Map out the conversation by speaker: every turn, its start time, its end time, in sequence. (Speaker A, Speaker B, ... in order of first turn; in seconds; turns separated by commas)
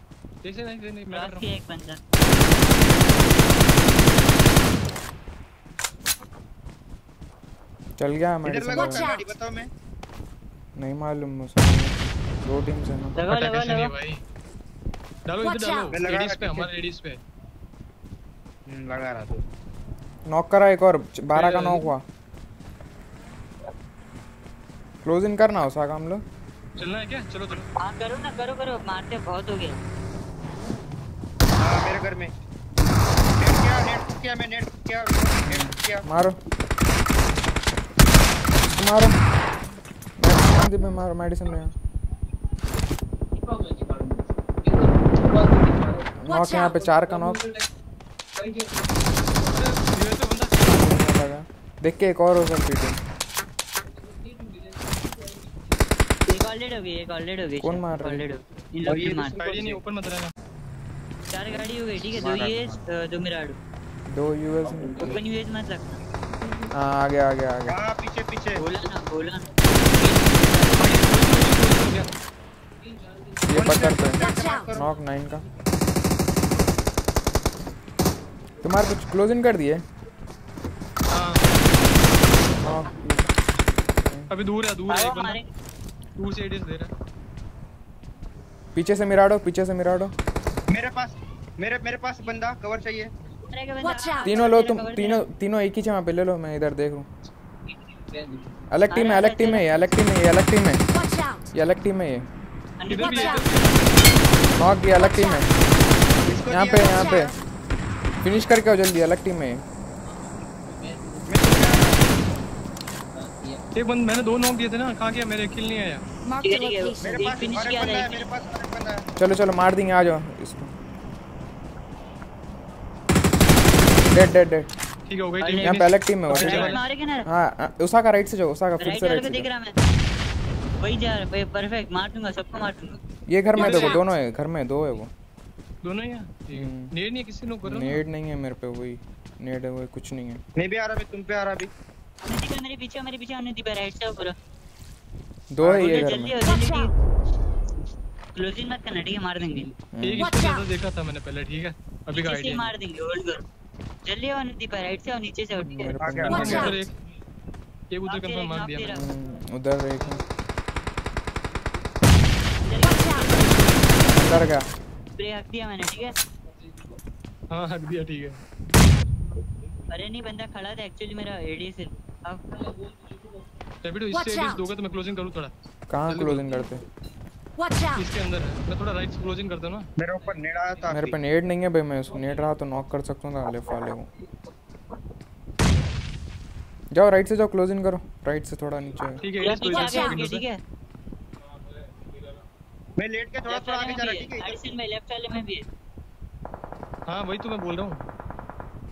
Speaker A: 0.4-1.5, Speaker B: 1.1-2.0, Speaker C: 8.0-9.1, Speaker D: 8.4-9.7, Speaker E: 8.9-9.1, Speaker C: 10.8-13.2, Speaker B: 13.2-13.9, Speaker A: 13.3-14.2, Speaker A: 15.2-17.2, Speaker D: 15.9-16.7, Speaker D: 18.7-19.4, Speaker C: 20.3-22.0, Speaker A: 21.3-21.9, Speaker C: 25.0-26.2, Speaker A: 26.8-27.7, Speaker B: 27.8-29.8, Speaker D: 31.6-32.3, Speaker D: 33.4-36.0, Speaker C: 35.5-36.4, Speaker C: 38.6-39.2, Speaker C: 40.2-41.7, Speaker C: 46.2-47.5, Speaker E: 46.3-46.7, Speaker A: 49.5-50.6, Speaker C: 50.6-53.0, Speaker B: 56.3-59.4, Speaker C: 57.6-58.2, Speaker D: 58.8-59.8, Speaker A: 59.4-60.3, Speaker B: 61.3-63.6, Speaker D: 62.1-62.8, Speaker C: 64.1-65.2, Speaker B: 65.0-66.0, Speaker C: 66.7-67.8, Speaker D: 67.7-68.6, Speaker B: 68.6-71.0, Speaker A: 70.8-72.1, Speaker C: 73.5-75.5, Speaker D: 73.5-74.9, Speaker C: 78.6-79.8, Speaker A: 81.1-81.5, Speaker C: 82.6-83.2, Speaker C: 84.0-84.3, Speaker A: 84.3-85.4, Speaker B: 84.9-85.5, Speaker A: 86.2-86.9, Speaker C: 88.8-90.1, Speaker D: 90.7-93.1, Speaker B: 93.4-95.2, Speaker C: 94.2-97.1, Speaker C: 98.7-100.9, Speaker B: 98.9-99.7, Speaker E: 101.0-101.5, Speaker C: 101.5-102.3, Speaker B: 102.8-103.6, Speaker A: 102.9-103.8, Speaker C: 104.6-105.5, Speaker D: 106.2-107.3, Speaker C: 106.5-107.3, Speaker C: 108.2-109.6, Speaker D: 111.3-112.0, Speaker A: 113.7-116.0, Speaker E: 116.2-117.4, Speaker B: 116.4-118.2, Speaker D: 117.0-119.0, Speaker C: 119.2-120.7, Speaker C: 124.0-124.7, Speaker A: 125.0-126.8, Speaker B: 125.4-127.3, Speaker C: 125.6-129.5, Speaker B: 128.8-129.7, Speaker B: 130.8-133.0, Speaker C: 133.3-135.1, Speaker A: 133.5-134.0, Speaker A: 135.8-138.0, Speaker C: 136.5-136.9, Speaker C: 137.6-140.4, Speaker D: 140.6-141.7, Speaker B: 142.2-144.3, Speaker C: 145.5-146.4, Speaker D: 145.6-146.0, Speaker B: 145.7-146.9, Speaker B: 148.3-149.7, Speaker C: 149.9-150.3, Speaker A: 150.0-152.7, Speaker B: 152.1-153.4, Speaker B: 154.0-156.1, Speaker C: 155.6-156.8, Speaker D: 156.0-156.7, Speaker A: 156.3-156.9, Speaker A: 157.9-158.9, Speaker B: 158.1-159.0, Speaker C: 158.9-160.2, Speaker B: 162.6-164.5, Speaker C: 164.0-164.7, Speaker B: 165.2-166.2, Speaker A: 167.5-168.4, Speaker B: 169.9-172.4, Speaker A: 173.8-175.5, Speaker C: 175.9-176.8, Speaker A: 176.1-176.6, Speaker E: 177.6-178.0, Speaker A: 177.9-179.9, Speaker D: 180.0-181.2, Speaker C: 180.9-184.1, Speaker C: 186.9-189.2, Speaker A: 189.2-190.4, Speaker B: 189.4-190.6, Speaker D: 193.0-194.6, Speaker B: 193.5-195.6, Speaker A: 197.1-198.1